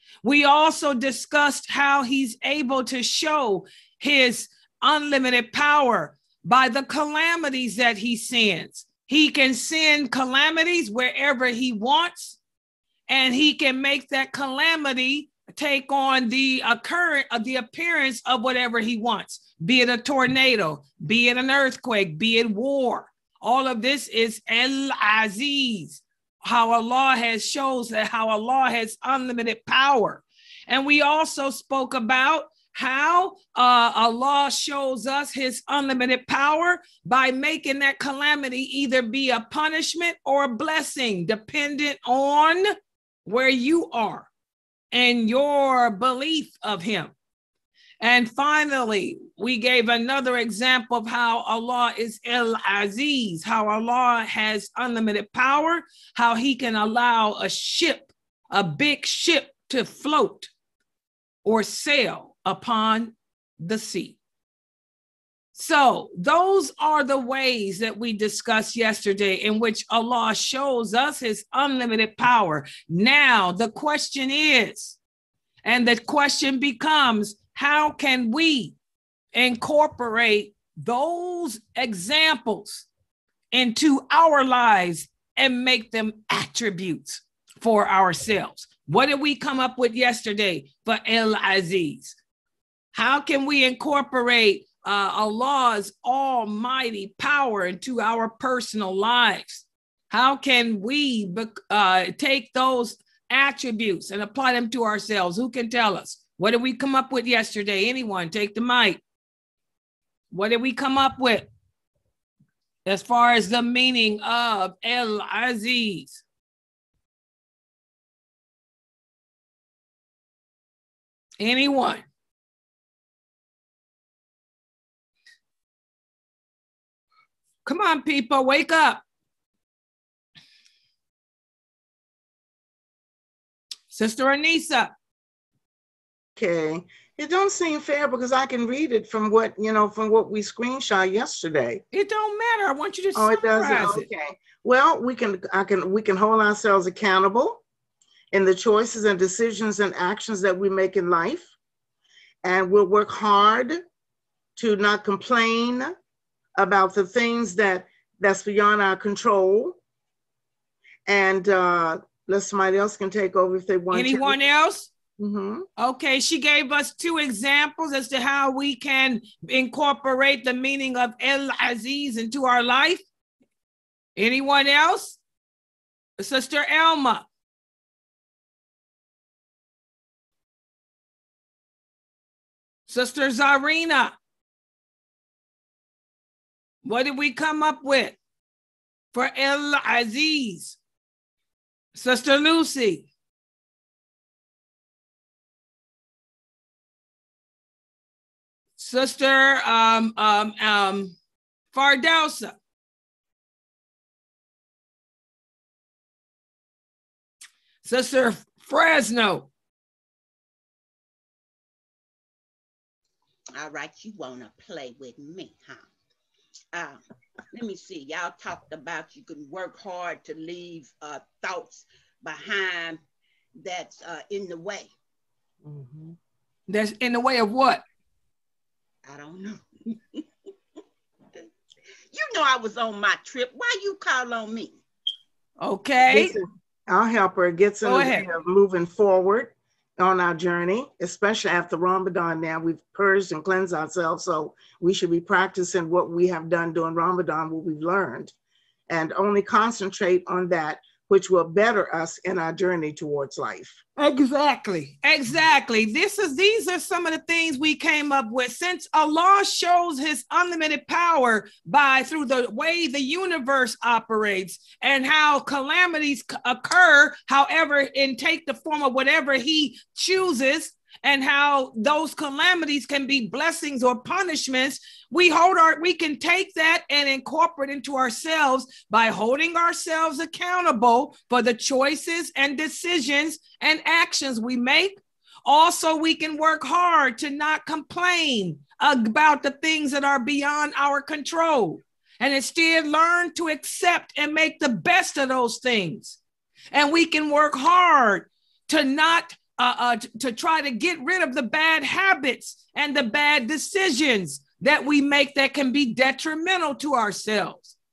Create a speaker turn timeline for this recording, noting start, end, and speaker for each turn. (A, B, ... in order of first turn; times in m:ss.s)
0:00.2-0:12.4 A
0:13.1-0:42.7 A
0:43.2-0:44.3 A
0:44.9-0:47.1 A
0:48.0-1:00.5 A
1:01.4-1:04.2 A
1:05.5-1:15.0 A
1:15.6-1:18.7 A
1:19.3-1:22.9 A
1:23.5-1:32.2 A
1:32.9-1:49.0 A
1:50.3-1:51.5 A
1:52.8-1:56.2 A
2:01.4-2:02.0 A
2:07.6-2:09.0 A
2:13.9-2:14.9 A
2:16.4-2:21.8 B
2:21.9-2:24.1 A
2:23.1-2:27.6 B
2:28.3-2:31.5 B
2:32.4-2:33.8 B
2:34.6-2:35.9 B
2:36.6-2:39.8 B
2:41.0-2:44.4 B
2:43.9-2:44.9 A
2:45.2-2:45.6 B
2:45.8-2:53.0 A
2:54.2-2:55.2 A
2:56.2-2:57.2 A
3:02.9-3:04.1 A
3:06.8-3:08.2 A
3:09.1-3:10.8 A
3:11.9-3:13.1 A
3:18.8-3:21.2 A
3:21.7-3:22.6 A
3:27.8-3:29.5 A
3:33.5-3:35.9 C
3:36.7-3:37.0 C
3:37.5-3:43.0 C
3:43.6-3:44.9 C
3:46.7-3:47.8 A
3:49.0-3:50.2 C
3:52.1-3:54.8 C
3:55.6-3:56.3 A
3:56.0-4:08.3 B
3:57.8-3:58.3 A
4:08.9-4:13.8 B
4:14.0-4:56.2 A
4:56.7-5:07.7 A